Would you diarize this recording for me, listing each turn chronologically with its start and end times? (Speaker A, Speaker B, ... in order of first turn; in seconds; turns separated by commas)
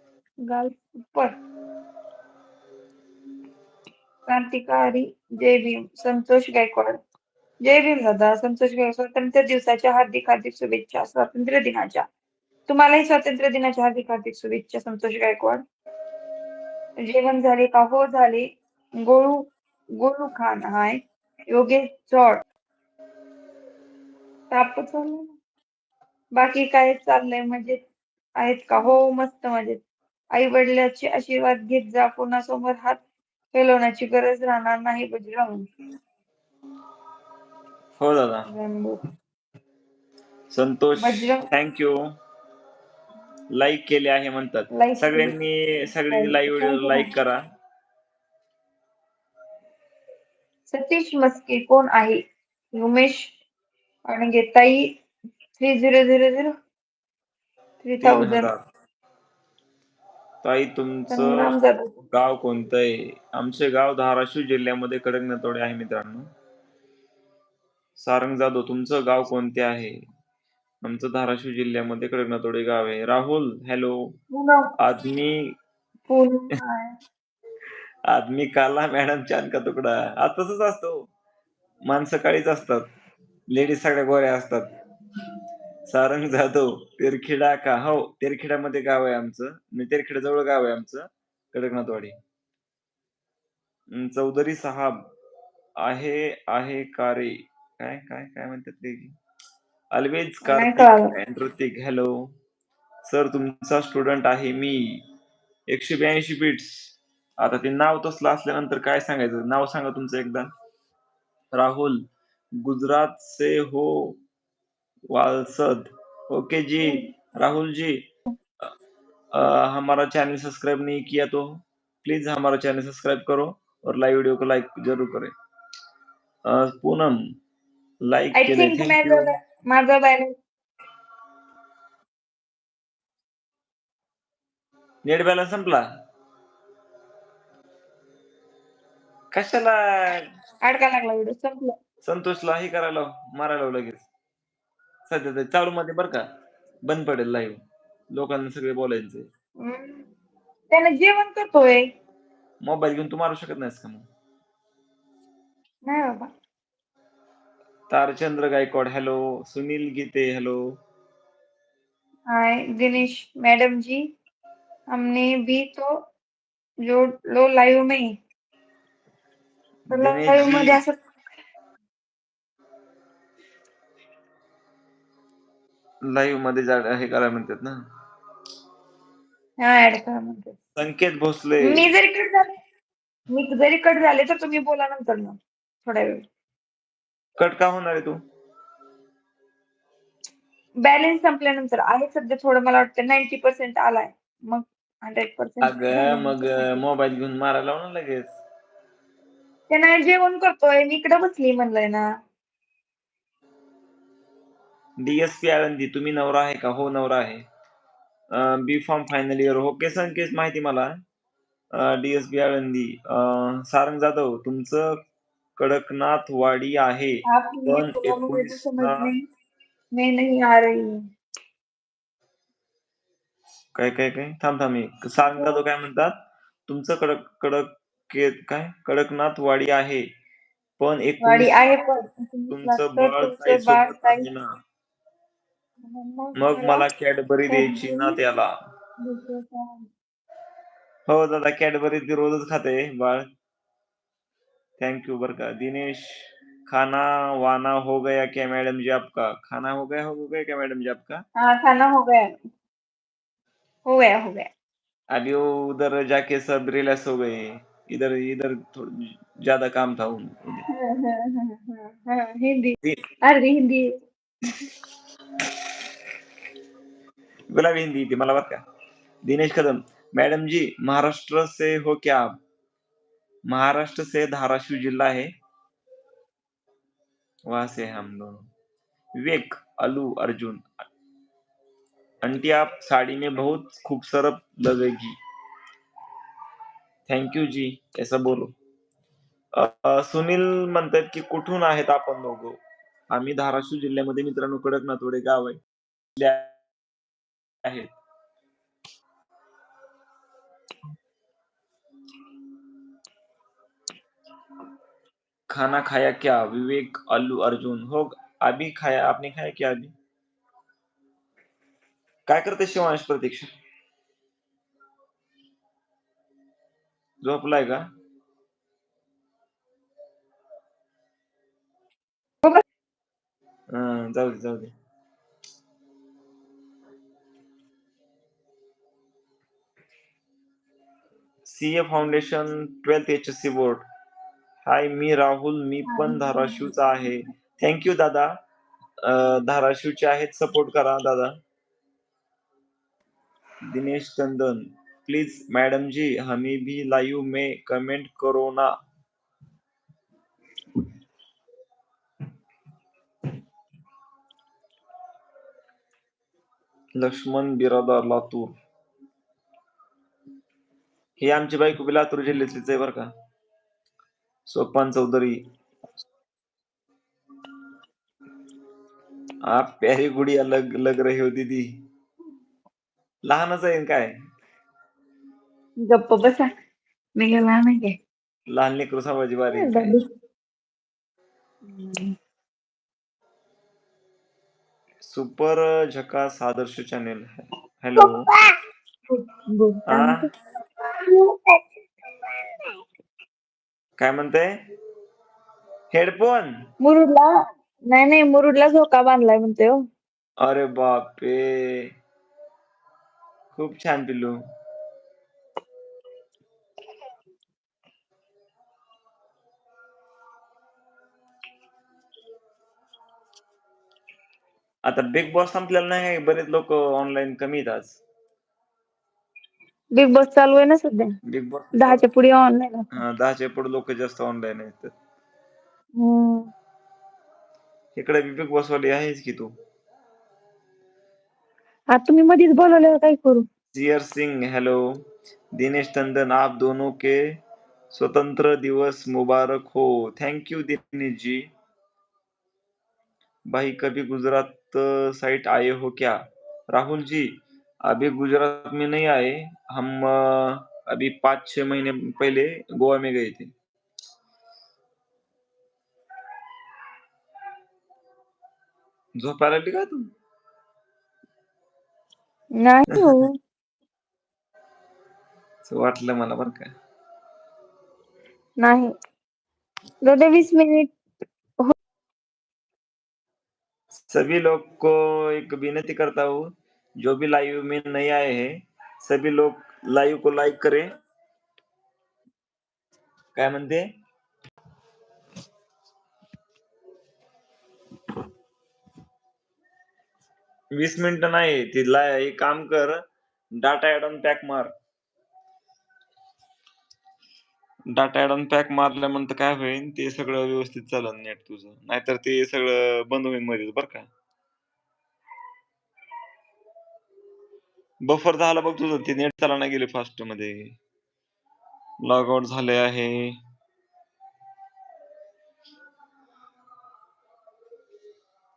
Speaker A: 0.4-1.3, Speaker A: 4.3-7.0, Speaker A: 7.6-12.1, Speaker A: 12.7-15.6, Speaker A: 17.0-18.5, Speaker A: 19.0-19.5, Speaker A: 20.0-22.4, Speaker A: 24.5-25.4, Speaker A: 26.4-27.8, Speaker A: 28.4-29.8, Speaker A: 30.3-33.0, Speaker A: 33.5-35.6, Speaker B: 38.0-38.5, Speaker A: 38.5-39.0, Speaker B: 40.5-42.0, Speaker A: 41.0-41.5, Speaker B: 43.5-47.4, Speaker A: 44.7-45.3, Speaker A: 46.1-47.1, Speaker A: 50.7-52.2, Speaker A: 52.8-53.3, Speaker A: 54.1-54.9, Speaker A: 55.6-56.5, Speaker A: 57.8-58.5, Speaker B: 58.0-58.6, Speaker B: 60.4-61.5, Speaker A: 61.1-62.0, Speaker B: 62.1-66.3, Speaker B: 68.0-70.0, Speaker B: 70.8-74.2, Speaker A: 74.3-74.7, Speaker B: 74.8-75.5, Speaker A: 76.1-77.0, Speaker B: 78.1-81.1, Speaker B: 81.9-82.8, Speaker B: 83.5-84.6, Speaker B: 85.9-92.1, Speaker B: 94.0-95.1, Speaker B: 95.8-99.1, Speaker B: 99.9-102.3, Speaker A: 100.4-101.1, Speaker B: 103.0-105.0, Speaker B: 105.7-110.5, Speaker B: 111.5-112.0, Speaker B: 112.6-114.2, Speaker B: 115.1-118.0, Speaker A: 116.8-117.1, Speaker B: 119.3-125.3, Speaker B: 126.5-127.2, Speaker B: 128.0-129.3, Speaker A: 128.3-130.3, Speaker B: 135.0-135.9, Speaker B: 139.3-140.2, Speaker A: 140.6-141.7, Speaker B: 142.0-144.1, Speaker B: 145.1-146.2, Speaker B: 146.8-147.6, Speaker B: 148.1-149.3, Speaker A: 149.6-150.1, Speaker A: 150.7-151.8, Speaker B: 152.6-154.0, Speaker A: 155.8-156.3, Speaker B: 157.9-160.6, Speaker A: 162.3-164.0, Speaker A: 164.9-165.9, Speaker A: 166.8-168.1, Speaker B: 169.9-170.8, Speaker A: 169.9-171.0, Speaker B: 176.1-177.8, Speaker A: 179.6-180.6, Speaker B: 180.8-181.9, Speaker A: 181.6-182.5, Speaker A: 183.3-186.2, Speaker B: 187.4-188.2, Speaker A: 190.8-196.8, Speaker B: 195.6-198.3, Speaker A: 199.7-202.1, Speaker B: 205.0-207.4, Speaker B: 208.3-210.9, Speaker B: 211.7-215.0, Speaker B: 215.6-219.1, Speaker A: 217.2-219.2, Speaker A: 219.9-221.0, Speaker B: 223.7-226.1, Speaker B: 226.7-230.0, Speaker B: 230.8-231.9, Speaker A: 231.2-234.2, Speaker B: 232.5-234.4, Speaker A: 235.9-236.8, Speaker B: 236.3-238.5, Speaker A: 237.5-238.2, Speaker A: 239.0-239.9, Speaker B: 241.1-243.2, Speaker B: 244.8-251.2, Speaker A: 251.4-252.3, Speaker A: 253.8-254.5, Speaker B: 255.1-260.6, Speaker A: 260.7-263.9, Speaker B: 267.5-268.6, Speaker B: 269.2-272.4, Speaker B: 273.5-275.3, Speaker B: 277.5-278.5, Speaker B: 279.1-280.7, Speaker B: 282.2-285.1, Speaker B: 287.1-288.5, Speaker B: 289.6-292.6, Speaker B: 293.1-295.6, Speaker B: 296.1-296.6, Speaker B: 297.6-297.9, Speaker B: 305.5-309.9, Speaker B: 312.3-313.5, Speaker B: 317.2-317.8, Speaker B: 323.7-324.7, Speaker B: 331.4-333.9, Speaker B: 334.6-338.3, Speaker A: 335.9-336.7, Speaker B: 339.0-341.3, Speaker B: 343.7-348.7, Speaker B: 357.0-358.5, Speaker B: 361.2-363.1, Speaker B: 364.5-365.4, Speaker B: 369.5-371.8, Speaker B: 373.2-374.1, Speaker A: 375.9-376.5, Speaker A: 377.2-378.0, Speaker B: 378.5-379.9, Speaker A: 379.5-380.1, Speaker A: 381.6-382.1, Speaker B: 385.0-388.2, Speaker A: 387.9-388.5, Speaker A: 389.1-390.3, Speaker B: 389.9-390.2, Speaker A: 390.8-391.7, Speaker A: 392.2-392.8, Speaker B: 394.0-394.5, Speaker B: 395.9-396.7, Speaker A: 396.8-397.3, Speaker A: 397.9-399.8, Speaker B: 400.4-401.9, Speaker B: 403.5-404.4, Speaker B: 414.8-418.0, Speaker A: 419.9-421.1, Speaker B: 421.3-422.1, Speaker A: 421.8-422.9, Speaker B: 422.9-424.9, Speaker A: 426.0-426.5, Speaker B: 427.9-429.5, Speaker A: 431.9-433.4, Speaker B: 433.7-434.9, Speaker B: 435.6-437.2, Speaker B: 437.9-441.4, Speaker B: 443.5-446.2, Speaker B: 446.7-447.3, Speaker B: 447.9-453.5, Speaker B: 459.2-460.1, Speaker A: 462.6-463.4, Speaker B: 465.6-466.7, Speaker A: 468.6-468.9, Speaker A: 470.0-470.9, Speaker B: 474.1-476.5, Speaker B: 477.0-480.9, Speaker B: 483.3-483.9, Speaker B: 490.7-493.0, Speaker B: 493.6-494.7, Speaker B: 497.9-504.1, Speaker B: 508.0-510.8, Speaker B: 512.0-513.4